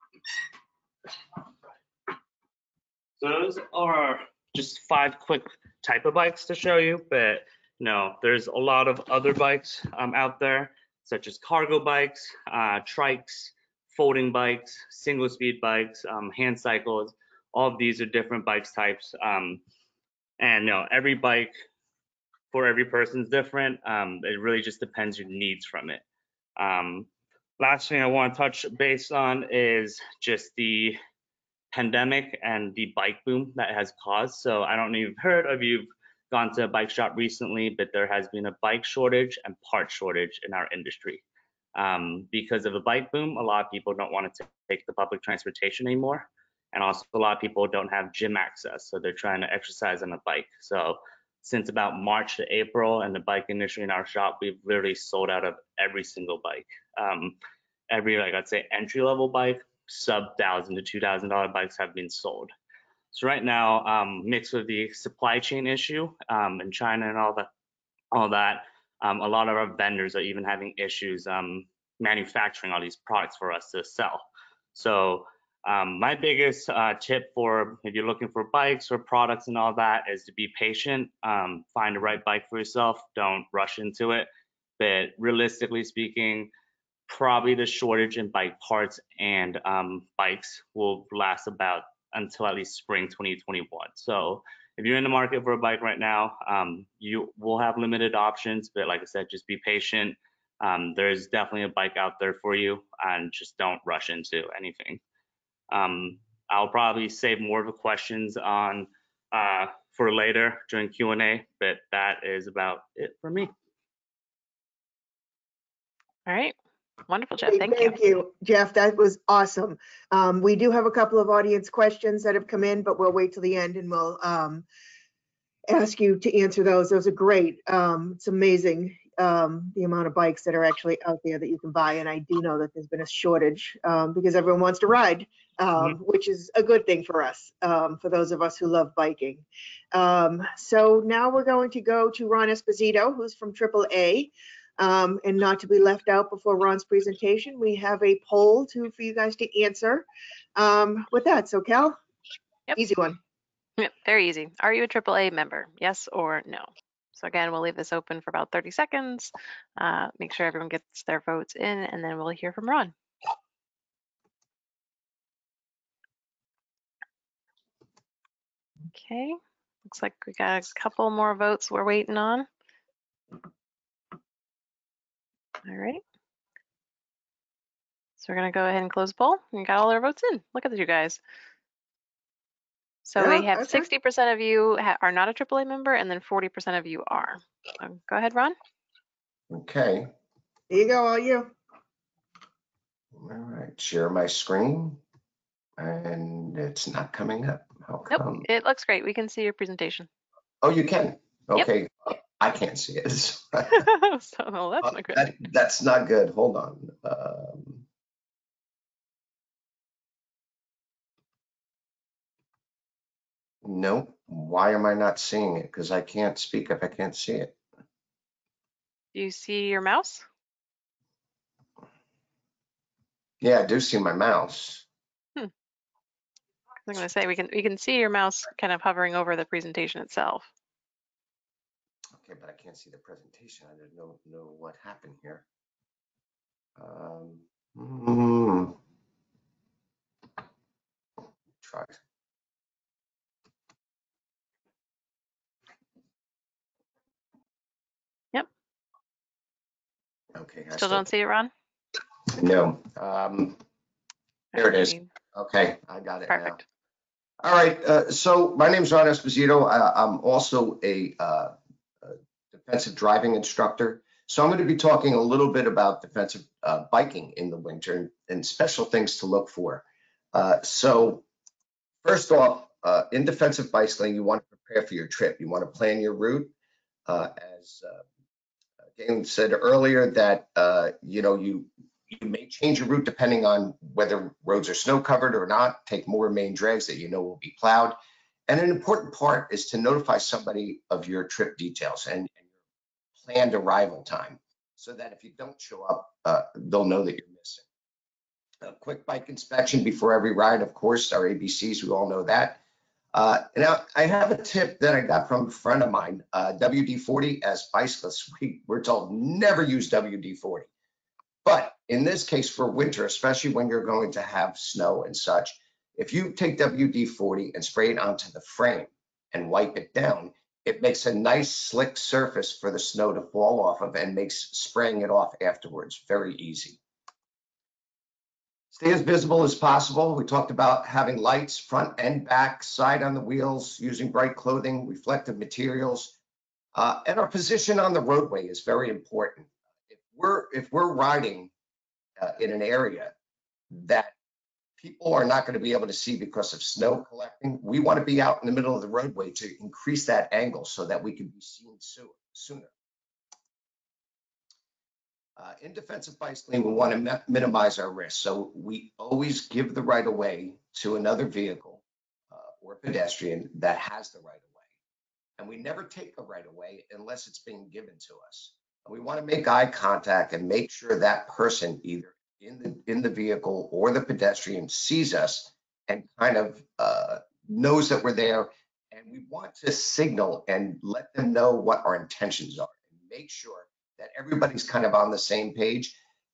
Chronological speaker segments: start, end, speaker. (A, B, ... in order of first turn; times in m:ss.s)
0:03.2-0:19.6 A
0:20.4-0:21.5 A
0:22.5-0:26.0 A
0:26.6-0:31.0 A
0:31.7-0:41.2 A
0:41.8-0:57.4 A
0:57.9-1:02.5 A
1:03.1-1:07.5 A
1:08.1-1:26.5 A
1:27.1-1:45.0 A
1:45.7-1:53.5 A
1:56.3-1:56.6 B
1:57.1-1:58.0 B
1:57.5-2:04.6 C
2:05.7-2:30.0 C
2:30.6-2:32.0 C
2:32.8-2:33.2 C
2:33.8-2:42.9 B
2:48.9-2:52.5 B
2:55.7-2:56.0 B
2:58.2-3:01.2 B
3:03.0-3:08.6 B
3:03.2-3:03.9 C
3:09.5-3:10.1 D
3:10.7-3:11.5 C
3:13.1-3:15.0 D
3:15.8-3:18.5 D
3:18.1-3:20.1 B
3:20.6-3:23.9 D
3:23.7-3:25.3 B
3:24.8-3:27.8 D
3:33.6-3:37.6 D
3:39.1-3:40.2 B
3:43.4-3:44.8 D
3:46.9-3:50.5 B
3:52.2-3:55.4 D
3:56.8-3:58.8 D
4:01.6-4:02.0 D
4:10.4-4:11.1 D
4:10.7-4:11.5 B
4:12.3-4:13.6 D
4:14.5-4:15.1 B
4:14.5-4:16.6 D
4:16.3-4:16.6 B
4:17.4-4:31.2 D
4:32.0-4:36.5 D
4:37.1-4:38.0 D
4:39.0-4:52.4 D
4:53.2-4:57.6 D
4:58.6-5:02.6 D
5:03.1-5:10.7 D
5:11.4-5:26.8 D
5:28.7-5:36.2 D
5:36.8-5:41.5 D
5:42.2-5:43.1 D
5:43.7-5:44.1 D
5:44.8-5:52.7 D
5:55.4-6:04.6 D
6:05.4-6:26.0 D